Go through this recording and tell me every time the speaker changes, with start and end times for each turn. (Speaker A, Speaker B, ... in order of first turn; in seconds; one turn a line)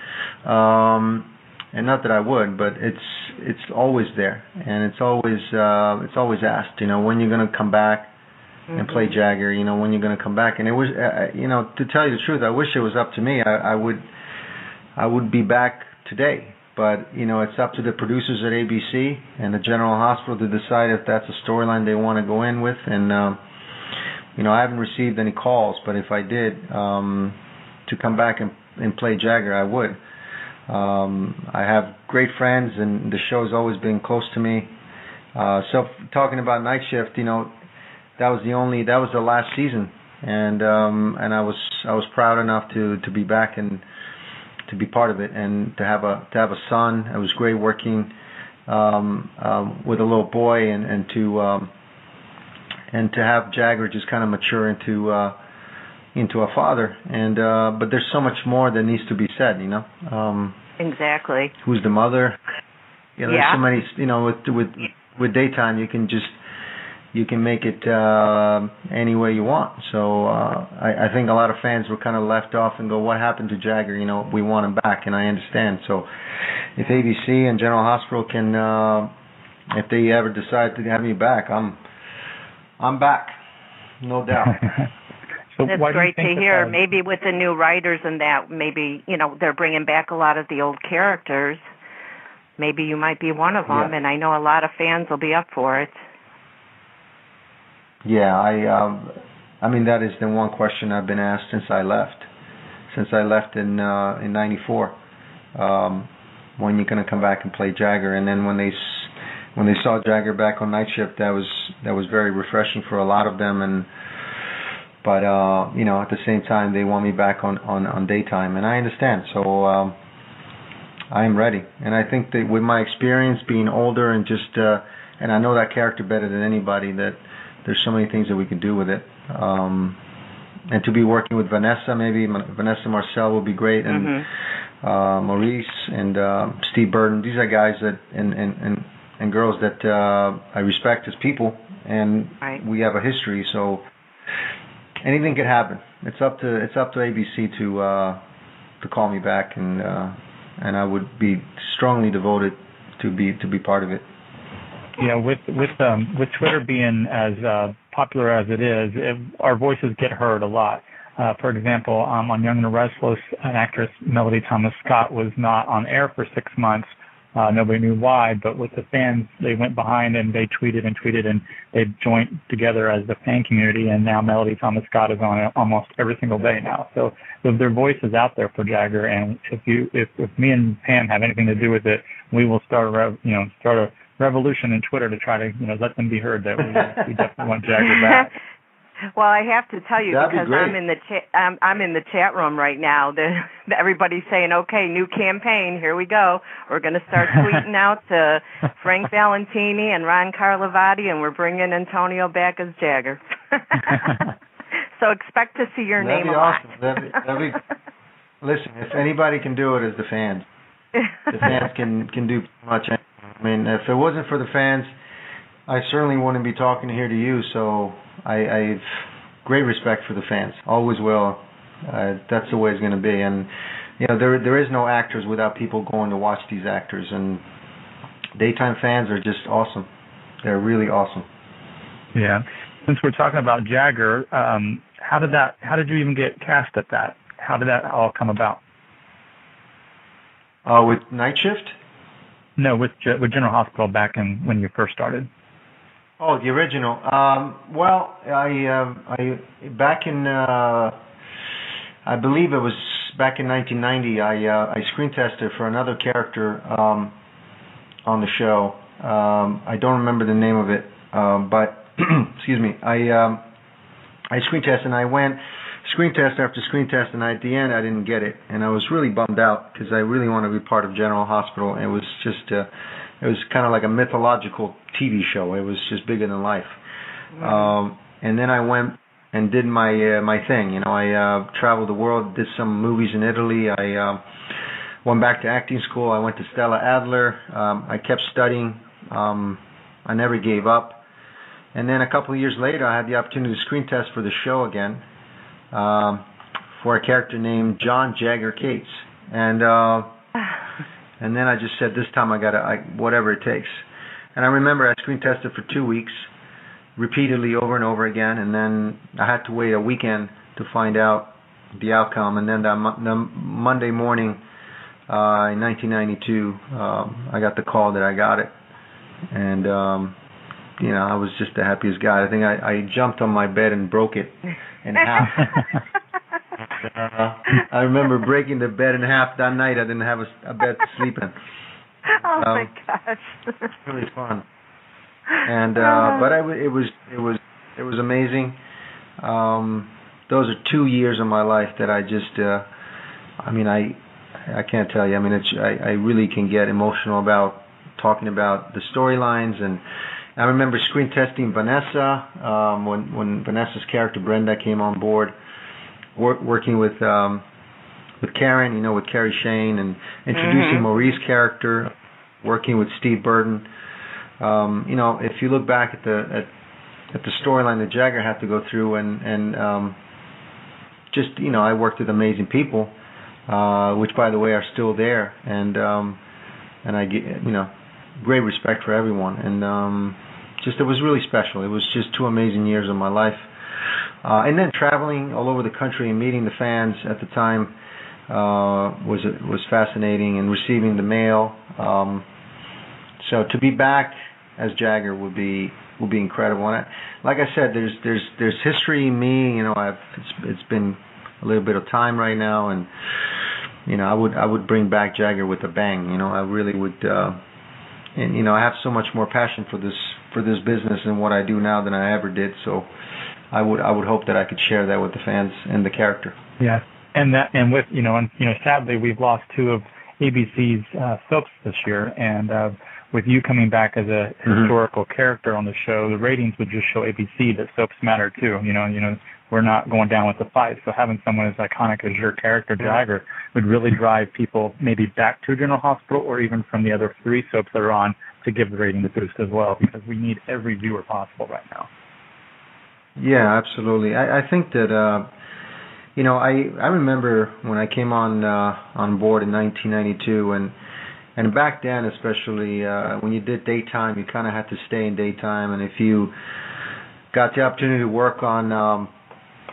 Speaker A: 0.4-8.1
Speaker A: 8.7-14.1
Speaker A: 14.9-23.4
Speaker A: 24.4-30.0
Speaker A: 30.7-34.7
Speaker A: 35.3-37.5
Speaker A: 38.2-43.8
Speaker A: 44.7-48.1
Speaker A: 48.7-51.7
Speaker A: 52.9-55.4
Speaker A: 56.1-60.6
Speaker B: 60.8-61.5
Speaker A: 61.6-62.4
Speaker A: 63.2-66.3
Speaker B: 63.3-63.6
Speaker A: 67.1-76.1
Speaker A: 76.8-79.1
Speaker A: 79.7-81.8
Speaker A: 82.8-83.3
Speaker A: 84.0-84.6
Speaker C: 85.5-86.8
Speaker B: 85.7-91.6
Speaker B: 92.6-96.0
Speaker A: 93.7-93.9
Speaker A: 98.0-102.3
Speaker A: 102.9-105.0
Speaker A: 105.5-113.9
Speaker A: 115.0-120.0
Speaker A: 121.1-130.0
Speaker A: 130.7-134.2
Speaker B: 133.9-134.2
Speaker A: 134.8-143.9
Speaker A: 145.0-148.2
Speaker A: 148.8-154.1
Speaker C: 155.0-188.3
Speaker B: 187.8-188.2
Speaker B: 189.1-204.3
Speaker A: 190.1-190.8
Speaker B: 205.0-206.6
Speaker A: 206.0-207.6
Speaker A: 208.4-210.5
Speaker A: 211.3-214.9
Speaker A: 215.7-227.4
Speaker A: 228.3-229.9
Speaker A: 230.4-231.3
Speaker C: 232.1-238.6
Speaker A: 240.6-241.7
Speaker C: 242.6-245.3
Speaker A: 246.2-250.9
Speaker A: 252.0-257.1
Speaker A: 258.0-263.4
Speaker A: 264.3-276.7
Speaker A: 277.4-284.2
Speaker A: 285.0-291.0
Speaker A: 291.7-295.0
Speaker A: 295.7-296.2
Speaker A: 296.8-300.1
Speaker A: 301.2-303.8
Speaker A: 304.3-306.3
Speaker A: 306.9-314.4
Speaker A: 315.1-318.5
Speaker A: 319.3-320.1
Speaker A: 320.8-325.5
Speaker A: 326.8-331.3
Speaker B: 332.1-333.5
Speaker A: 332.4-332.7
Speaker A: 333.8-334.4
Speaker A: 335.4-338.6
Speaker B: 335.8-336.2
Speaker A: 339.2-342.7
Speaker A: 343.4-349.8
Speaker A: 350.4-355.3
Speaker A: 356.1-357.4
Speaker A: 358.2-363.7
Speaker B: 360.4-360.9
Speaker A: 364.4-366.5
Speaker A: 367.1-370.0
Speaker A: 371.1-372.9
Speaker A: 373.5-376.2
Speaker A: 376.8-383.5
Speaker A: 384.2-387.7
Speaker A: 388.3-392.2
Speaker A: 393.2-402.9
Speaker A: 403.9-407.4
Speaker A: 408.1-412.9
Speaker A: 413.5-416.4
Speaker C: 416.6-441.9
Speaker A: 443.2-445.3
Speaker A: 446.1-450.7
Speaker A: 451.4-456.3
Speaker A: 457.3-459.1